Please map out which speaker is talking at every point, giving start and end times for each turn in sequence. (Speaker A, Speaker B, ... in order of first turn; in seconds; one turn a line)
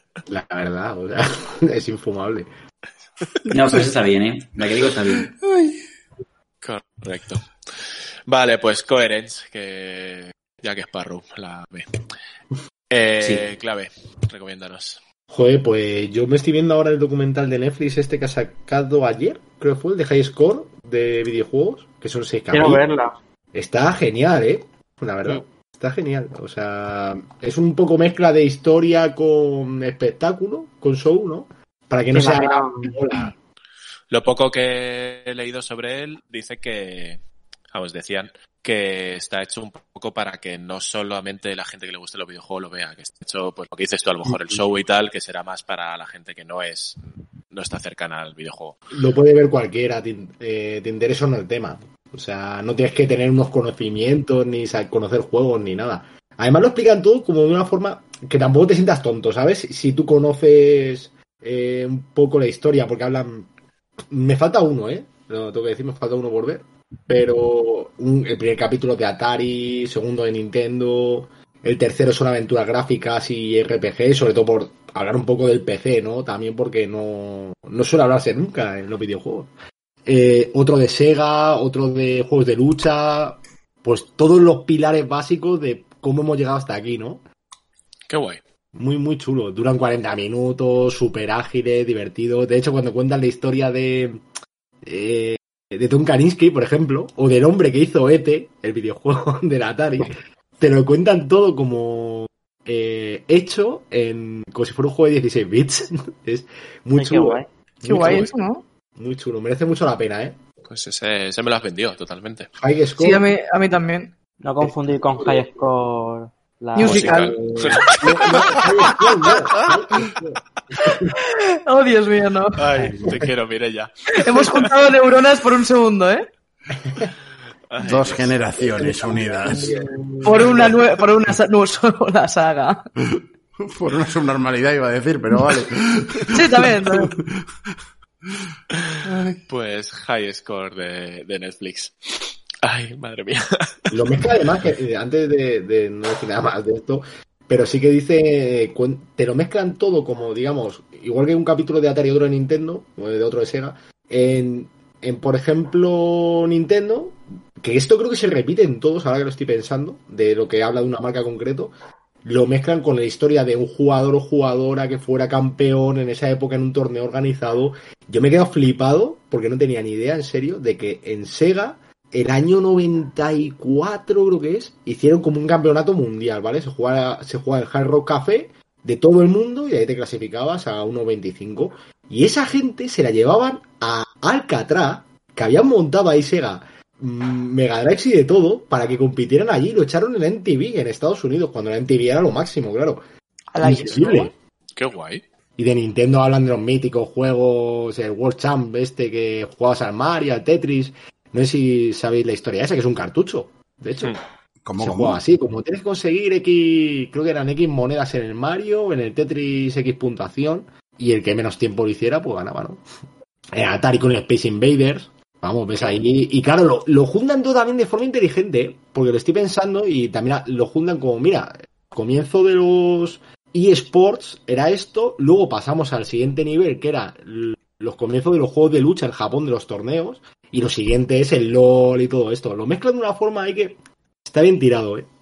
Speaker A: 0.3-2.5
Speaker B: 3.5-5.3
Speaker C: 5.5-5.7
Speaker D: 6.6-7.5
Speaker D: 8.3-11.9
Speaker D: 12.9-15.0
Speaker B: 13.2-13.5
Speaker A: 15.3-22.8
Speaker E: 22.5-23.2
Speaker A: 23.5-33.3
Speaker E: 32.1-32.9
Speaker D: 34.1-37.2
Speaker D: 37.7-48.8
Speaker A: 44.3-44.6
Speaker A: 48.9-63.5
Speaker A: 64.1-79.5
Speaker A: 80.0-87.2
Speaker D: 88.1-88.4
Speaker A: 88.7-94.2
Speaker A: 94.8-108.3
Speaker E: 106.9-107.5
Speaker F: 107.8-108.6
Speaker D: 108.0-108.3
Speaker A: 109.0-110.4
Speaker D: 110.7-112.5
Speaker A: 112.6-113.2
Speaker F: 113.0-114.1
Speaker E: 114.4-117.8
Speaker F: 116.7-117.3
Speaker D: 116.8-118.5
Speaker A: 117.5-121.1
Speaker F: 118.2-119.1
Speaker F: 121.2-122.6
Speaker D: 122.6-124.7
Speaker F: 124.2-126.3
Speaker A: 126.8-127.1
Speaker D: 127.7-128.3
Speaker C: 127.8-129.8
Speaker F: 130.2-132.8
Speaker C: 133.2-137.2
Speaker F: 136.3-137.1
Speaker C: 139.0-139.3
Speaker D: 139.5-143.9
Speaker A: 143.9-161.7
Speaker A: 162.2-193.0
Speaker F: 193.5-194.3
Speaker A: 193.6-194.3
Speaker D: 194.8-195.2
Speaker A: 195.6-204.2
Speaker C: 204.6-205.2
Speaker A: 204.8-212.8
Speaker A: 213.5-235.1